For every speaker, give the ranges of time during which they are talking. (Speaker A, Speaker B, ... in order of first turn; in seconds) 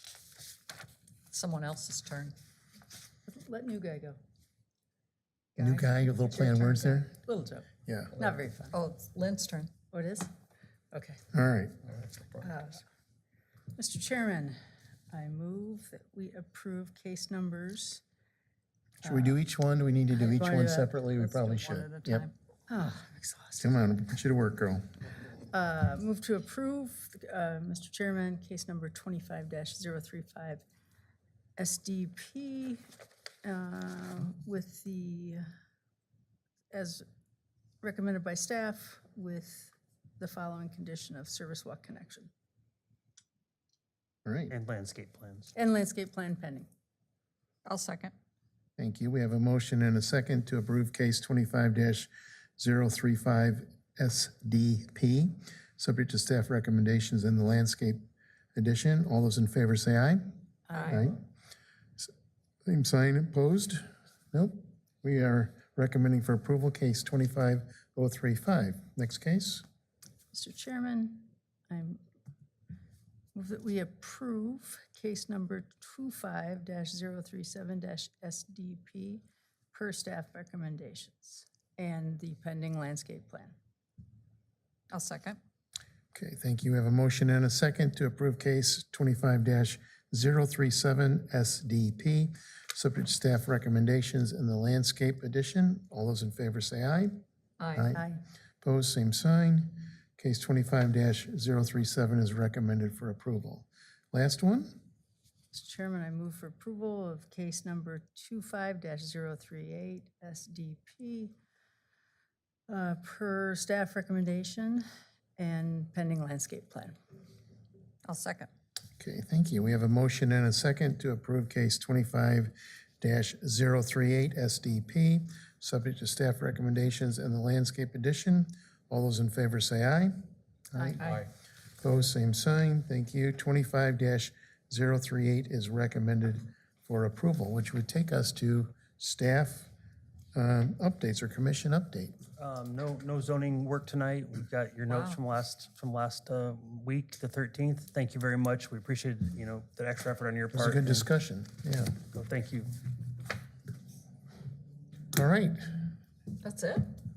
Speaker A: 1.3-2.3, 8.7-9.7, 21.2-22.3, 47.6-48.1, 60.7-61.0, 84.9-85.4, 97.6-97.9, 118.0-118.5, 144.9-145.2, 156.4-156.9
Speaker B: 3.3-4.2, 5.5-8.8, 9.9-10.3, 10.9-11.2, 12.4-12.8, 13.7-14.6, 15.1-18.0, 19.0-19.4, 20.1-20.9, 22.7-23.7, 25.5-30.6, 31.6-32.8, 33.4-35.4, 36.7-37.0, 37.8-42.3, 45.5-46.7, 60.7-61.1, 70.3-72.0, 73.3-83.5, 97.9-98.2, 105.5-111.3, 112.7-114.8, 115.4-117.0, 130.8-131.2
Speaker C: 5.6-7.1, 7.8-8.2, 11.3-11.8, 19.0-22.3, 23.6-24.8, 44.2-44.5, 48.8-60.4, 60.9-61.2, 62.6-69.6, 86.1-97.2, 97.7-98.1, 98.6-104.8, 119.0-130.2, 130.7-131.2, 131.8-139.7, 140.3-142.2, 150.5-152.0, 155.1-155.6
Speaker D: 44.5-45.5, 142.4-151.1, 152.1-152.7